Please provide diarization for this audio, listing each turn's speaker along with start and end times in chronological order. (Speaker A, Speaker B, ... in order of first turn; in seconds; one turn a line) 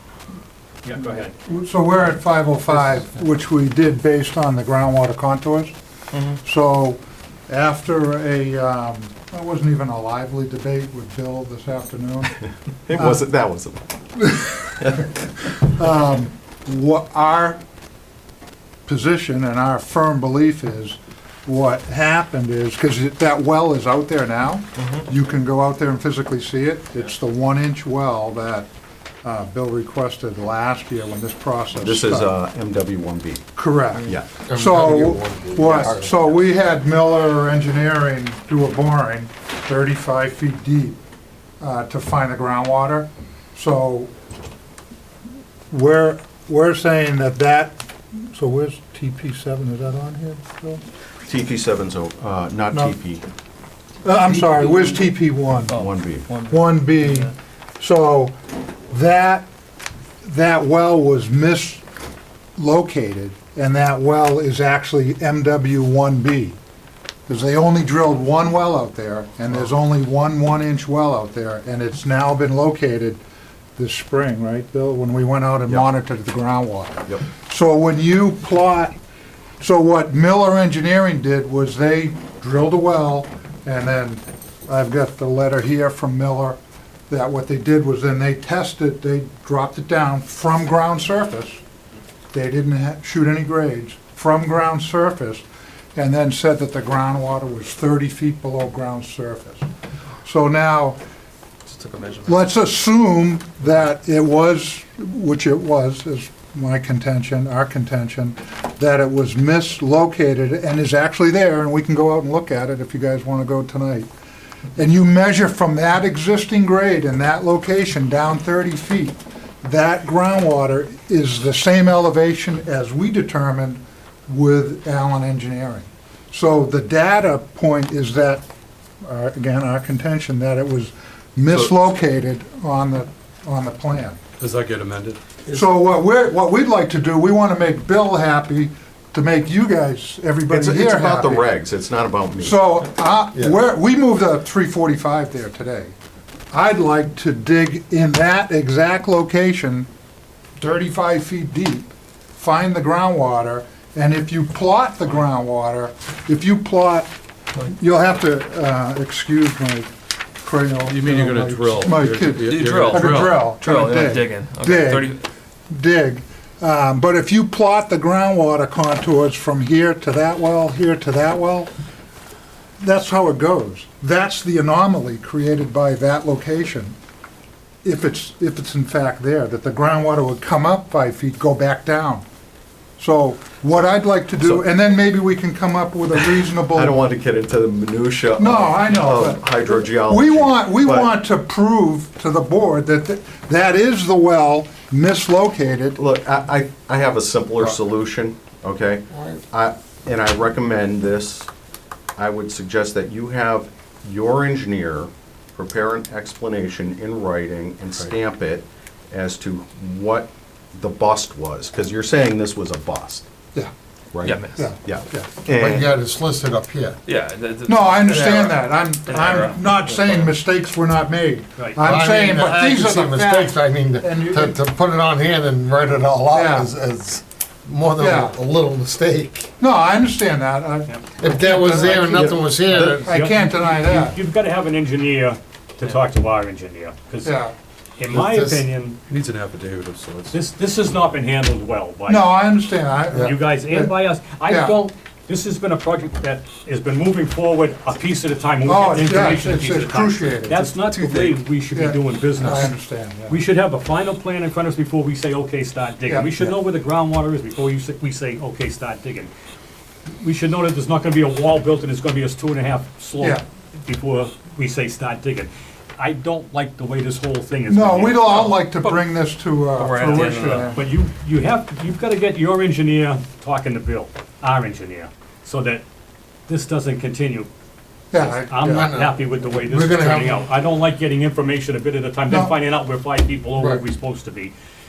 Speaker A: 0.8-1.3
Speaker B: 1.5-5.7
Speaker B: 6.3-12.3
Speaker C: 12.9-13.8
Speaker B: 12.9-13.2
Speaker B: 14.2-17.6
Speaker B: 18.9-28.7
Speaker B: 29.2-32.4
Speaker C: 31.8-33.5
Speaker B: 33.6-41.0
Speaker D: 34.5-36.3
Speaker C: 35.6-35.9
Speaker B: 41.6-44.1
Speaker B: 45.7-50.8
Speaker C: 51.2-53.2
Speaker B: 54.0-55.9
Speaker C: 55.7-56.3
Speaker B: 56.5-58.4
Speaker B: 58.9-59.5
Speaker B: 60.2-61.8
Speaker B: 62.6-66.6
Speaker B: 67.3-73.2
Speaker B: 73.8-79.0
Speaker B: 79.6-91.6
Speaker B: 92.3-95.5
Speaker B: 96.0-99.7
Speaker B: 100.2-101.0
Speaker E: 101.7-102.3
Speaker B: 102.2-114.1
Speaker B: 114.8-128.4
Speaker B: 129.1-134.2
Speaker F: 134.4-135.2
Speaker B: 135.5-141.6
Speaker C: 140.5-142.8
Speaker B: 142.4-145.9
Speaker B: 146.5-149.9
Speaker B: 150.6-165.2
Speaker F: 160.9-163.6
Speaker E: 162.5-165.2
Speaker B: 165.7-171.7
Speaker B: 172.8-176.9
Speaker B: 177.8-182.2
Speaker B: 183.0-187.0
Speaker C: 186.7-191.1
Speaker B: 188.4-196.0
Speaker C: 196.0-201.5
Speaker D: 199.1-199.4
Speaker C: 202.2-213.3
Speaker C: 214.1-215.9
Speaker E: 214.2-214.7
Speaker B: 214.4-215.3
Speaker D: 215.5-217.0
Speaker E: 217.1-220.3
Speaker B: 217.7-224.6
Speaker D: 221.8-229.5
Speaker B: 226.3-226.7
Speaker B: 228.0-228.4
Speaker B: 229.6-234.2
Speaker D: 231.2-233.1
Speaker A: 231.6-237.3
Speaker B: 237.2-237.5
Speaker A: 238.0-239.0
Speaker D: 238.1-238.7
Speaker F: 239.1-240.4
Speaker A: 240.3-242.4
Speaker B: 242.1-243.9
Speaker A: 243.1-252.8
Speaker B: 244.4-244.8
Speaker B: 248.6-250.8
Speaker B: 251.7-253.4
Speaker A: 253.3-259.3
Speaker B: 256.1-256.5
Speaker A: 260.2-268.6
Speaker B: 263.2-263.4
Speaker B: 267.7-270.8
Speaker D: 269.8-270.7
Speaker A: 270.0-275.8
Speaker A: 276.5-277.5
Speaker B: 278.1-278.9
Speaker A: 278.1-284.5
Speaker D: 278.6-280.4
Speaker B: 282.3-282.6
Speaker D: 283.6-283.8